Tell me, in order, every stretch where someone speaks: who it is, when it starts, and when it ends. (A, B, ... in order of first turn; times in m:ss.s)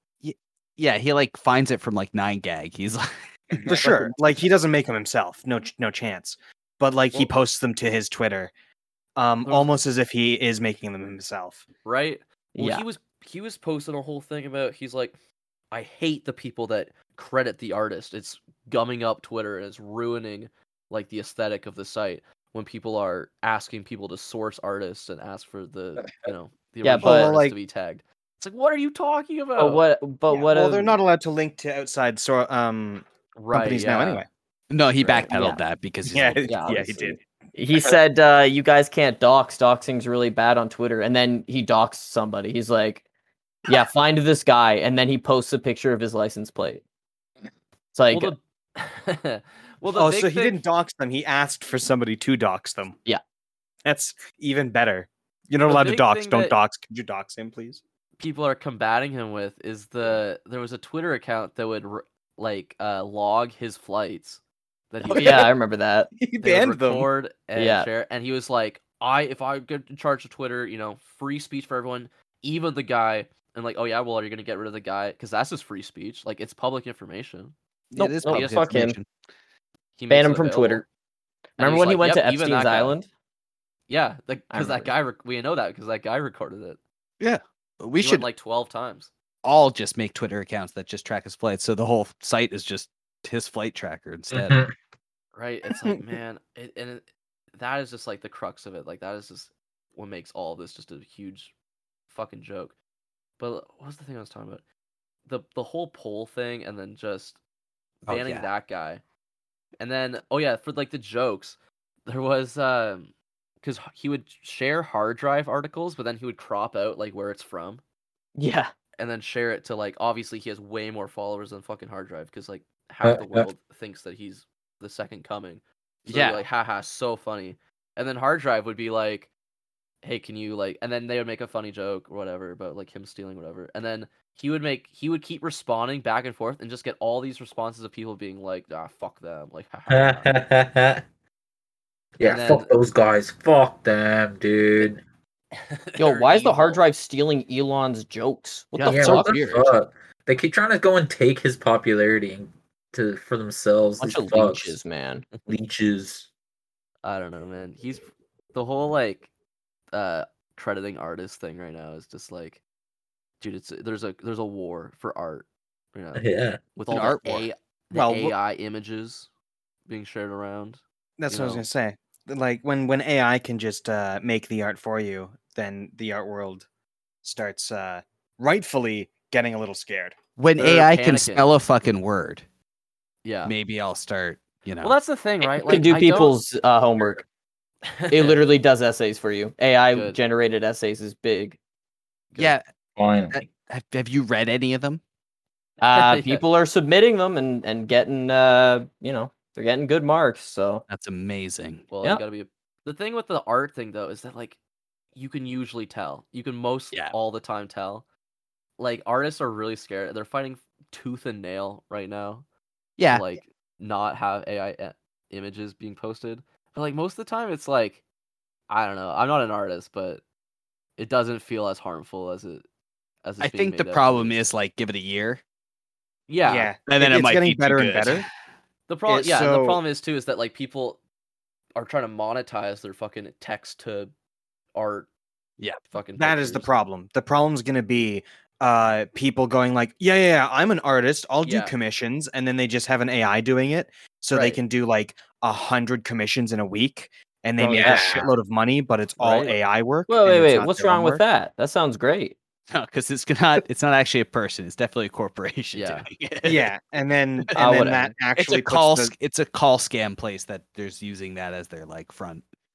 0:00.2-0:03.6 A
0:03.7-0:08.5 B
0:03.8-0:04.1 C
0:09.2-0:11.6 B
0:09.4-0:09.7 D
0:11.8-0:15.2 D
0:12.6-0:12.8 C
0:15.7-0:29.8 D
0:26.0-0:26.3 E
0:26.8-0:27.3 C
0:27.0-0:27.6 B
0:29.6-0:31.0 C
0:30.3-0:34.3 B
0:33.4-0:34.2 D
0:34.7-0:36.5 A
0:35.0-0:35.6 C
0:36.1-0:37.2 B
0:36.4-0:43.0 C
0:43.7-0:46.8 C
0:47.9-0:48.3 C
0:48.1-0:50.6 D
0:49.9-0:53.0 B
0:53.8-0:57.8 B
0:55.7-0:56.6 D
0:58.2-1:05.5 D
1:05.1-1:06.1 C
1:05.1-1:05.4 B
1:06.2-1:07.1 B
1:06.4-1:17.5 D
1:07.6-1:07.9 C
1:17.9-1:19.1 A
1:18.0-1:19.0 C
1:18.3-1:18.7 D
1:20.0-1:20.8 D
1:20.1-1:20.9 C
1:21.6-1:23.0 D
1:21.6-1:23.1 C
1:23.9-1:26.8 D
1:24.5-1:24.9 C
1:27.2-1:28.3 A
1:28.0-1:29.1 D
1:29.4-1:34.6 A
1:34.3-1:34.7 E
1:35.4-1:41.5 D
1:42.1-1:42.8 D
1:43.4-1:44.6 D
1:45.3-1:47.4 D
1:48.1-1:49.0 D
1:48.1-1:48.5 A
1:49.8-1:57.8 D
1:58.4-1:58.7 C
1:59.0-2:09.3 D
2:03.0-2:03.5 E
2:06.0-2:06.4 A
2:10.0-2:20.4 D
2:19.9-2:21.0 E
2:22.2-2:25.0 E
2:22.2-2:22.8 D
2:25.5-2:26.8 D
2:26.0-2:29.3 C
2:28.8-2:29.7 A
2:28.8-2:34.8 E
2:34.0-2:35.3 C
2:35.5-2:36.3 E
2:37.0-2:39.3 D
2:39.9-2:42.6 D
2:43.4-2:49.3 D
2:46.2-2:46.6 E
2:46.9-2:47.5 A
2:47.9-2:48.4 B
2:49.9-2:51.6 D
2:51.2-2:56.7 B
2:57.2-3:00.2 B
3:00.4-3:02.4 A
3:00.6-3:01.5 D
3:03.2-3:03.5 D
3:03.4-3:05.0 A
3:04.8-3:06.4 D
3:05.6-3:07.2 C
3:07.9-3:08.4 D
3:08.1-3:11.6 C
3:09.9-3:10.2 D
3:12.4-3:12.6 A
3:13.0-3:13.4 E
3:13.3-3:15.0 A
3:15.8-3:20.8 C
3:15.9-3:16.4 D
3:20.9-3:21.9 A
3:21.9-3:24.6 D
3:25.2-3:28.0 D
3:28.8-3:32.4 D
3:33.0-3:33.3 A
3:33.1-3:38.0 D
3:38.7-3:40.2 D
3:41.0-3:42.6 D
3:43.2-3:44.4 D
3:43.4-3:45.4 A
3:46.3-3:46.7 D
3:46.4-3:48.3 B
3:46.9-3:48.3 A
3:48.9-3:51.0 D
3:49.1-3:49.8 B
3:51.8-3:54.1 D
3:54.7-3:55.1 D
3:55.9-3:56.7 D
3:56.2-4:11.2 B
4:01.4-4:01.8 D
4:04.3-4:04.6 C
4:07.6-4:08.1 C
4:07.7-4:08.1 A
4:07.7-4:08.3 E
4:09.2-4:09.5 D
4:10.1-4:12.4 C
4:12.7-4:16.7 A
4:15.7-4:16.1 D
4:16.4-4:19.1 B
4:17.6-4:18.2 C
4:17.6-4:22.4 A